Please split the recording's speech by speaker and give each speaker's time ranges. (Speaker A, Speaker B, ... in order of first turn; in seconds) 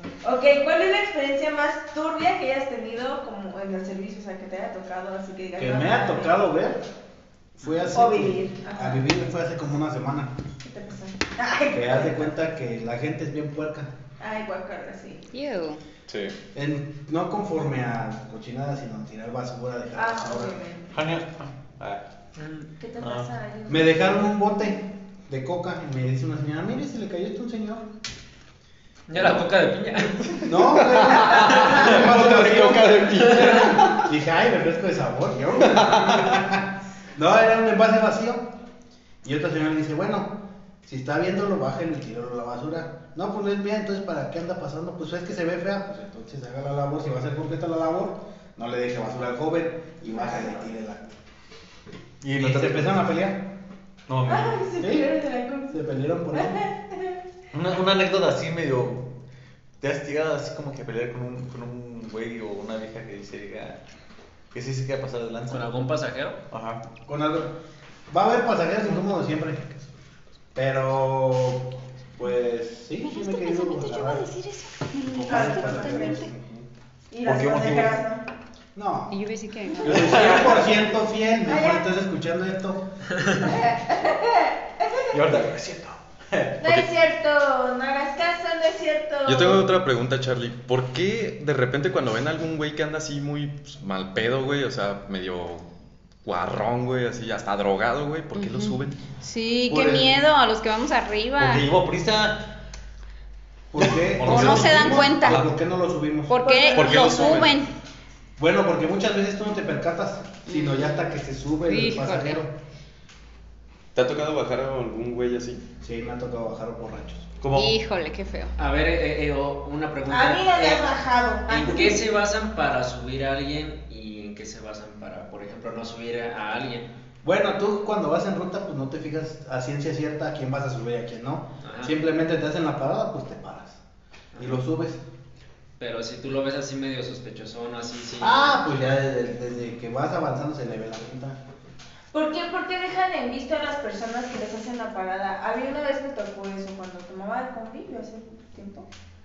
Speaker A: 0.2-6.3, 7.9-9.1, 10.6-12.3, 14.2-15.3, 19.9-21.0, 22.8-24.0, 50.1-50.6, 54.3-57.2, 75.2-76.2, 77.1-78.2, 81.4-81.8, 83.4-85.2, 86.6-89.7, 106.4-107.5, 120.1-122.0, 142.1-148.9
Speaker B: 5.6-6.8, 7.6-10.3, 11.7-13.9, 16.5-20.6, 23.7-27.9, 30.4-38.5, 39.2-51.1, 52.3-53.5, 54.8-55.1, 55.7-56.6, 67.0-67.5, 68.1-69.9, 70.5-74.3, 75.1-76.7, 78.7-79.2, 79.8-82.9, 103.7-106.4, 108.4-112.6, 115.8-117.3, 127.2-133.8, 134.4-135.0, 138.2-141.4
Speaker C: 15.3-15.8, 73.0-76.3, 79.1-80.1, 98.3-101.7, 104.2-105.5, 106.3-107.7, 110.5-110.9, 111.7-112.4, 117.5-118.5
Speaker D: 16.1-16.3, 30.4-34.1, 35.6-36.4, 89.2-95.7, 96.2-99.0, 106.7-107.6, 113.9-115.6
Speaker E: 20.9-22.0, 23.0-23.3, 52.2-53.0, 54.1-54.6, 57.5-59.1, 59.8-63.8, 64.5-65.7, 66.5-66.8, 77.2-78.0, 79.9-80.7, 85.1-86.6, 99.7-100.2, 101.4-102.5, 103.8-105.2, 117.4-117.7
Speaker F: 22.4-22.7, 29.1-30.4, 65.5-66.4, 118.6-120.9, 121.5-126.9, 131.6-131.9, 135.8-138.6